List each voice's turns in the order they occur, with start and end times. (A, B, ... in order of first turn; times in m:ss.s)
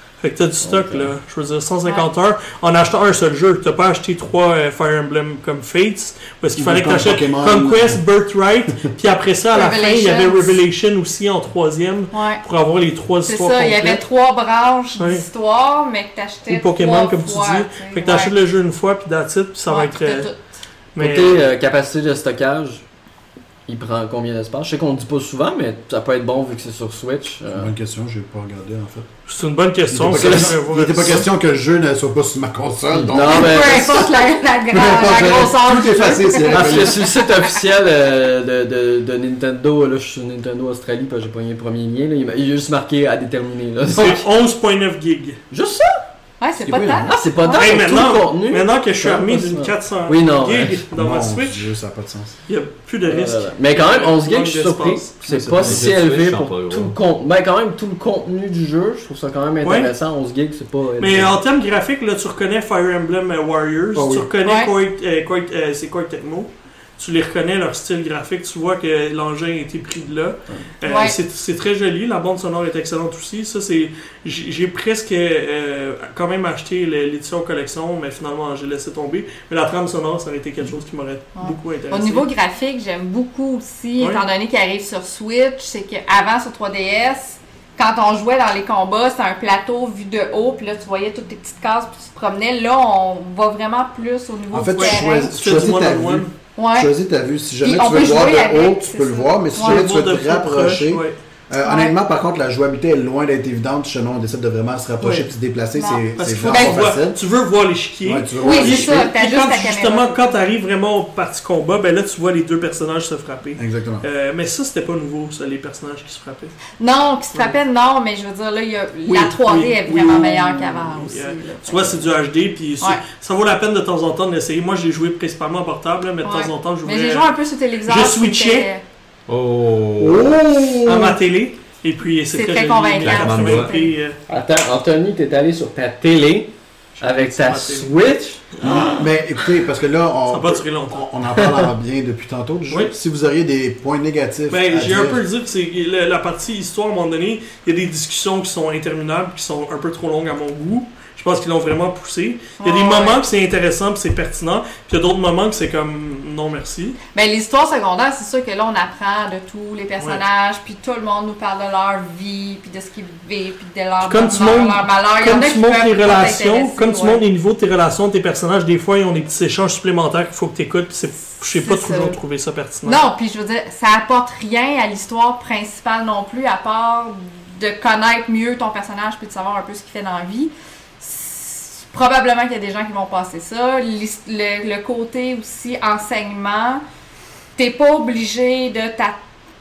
0:00.2-0:14.0 A
0:00.6-0:01.1 B
0:06.6-0:08.0 C
0:09.5-0:10.6 D
0:12.1-0:12.4 D
0:13.2-0:18.3 D
0:15.0-0:15.2 A
0:16.5-0:20.3 A
0:19.7-0:20.4 D
0:20.9-0:21.4 A
0:21.0-0:22.8 B
0:23.7-0:27.7 B
0:27.5-0:29.1 C
0:29.3-0:31.3 A
0:29.9-0:34.1 C
0:30.1-0:30.5 B
0:32.9-0:34.0 B
0:33.2-0:37.1 D
0:34.7-0:37.0 C
0:36.5-0:44.2 B
0:43.9-0:45.4 A
0:45.5-0:46.0 B
0:46.4-0:47.8 D
0:46.6-0:47.1 C
0:47.0-0:50.8 B
0:47.5-0:51.7 A
0:50.9-0:52.4 C
0:52.5-0:55.1 A
0:53.1-1:01.4 B
0:55.2-0:55.9 C
0:55.6-0:56.9 E
0:59.6-0:59.9 A
1:01.0-1:22.3 A
1:03.9-1:04.3 C
1:04.4-1:04.7 D
1:10.8-1:11.2 D
1:21.3-1:35.3 D
1:24.0-1:24.2 A
1:34.5-1:47.2 C
1:34.7-1:36.3 A
1:36.6-1:36.9 D
1:37.6-1:39.9 D
1:39.5-1:41.2 A
1:41.6-1:42.0 D
1:45.0-1:46.9 D
1:46.2-1:56.5 A
1:48.0-1:49.1 C
1:48.4-1:50.2 D
1:53.6-1:54.0 C
1:56.8-2:02.1 D
1:59.0-2:07.3 A
2:06.2-2:08.8 D
2:07.8-2:08.7 A
2:09.3-2:10.4 E
2:10.0-2:11.2 B
2:10.8-2:14.2 A
2:12.3-2:13.9 D
2:13.0-2:13.7 E
2:14.3-2:18.4 B
2:17.0-2:17.9 A
2:18.6-2:18.9 A
2:18.6-2:25.2 C
2:20.3-2:21.1 A
2:24.5-2:37.0 A
2:32.6-2:33.2 D
2:37.1-2:47.2 D
2:44.0-2:53.0 A
2:51.5-2:52.2 D
2:52.8-3:06.8 D
3:07.6-3:09.2 D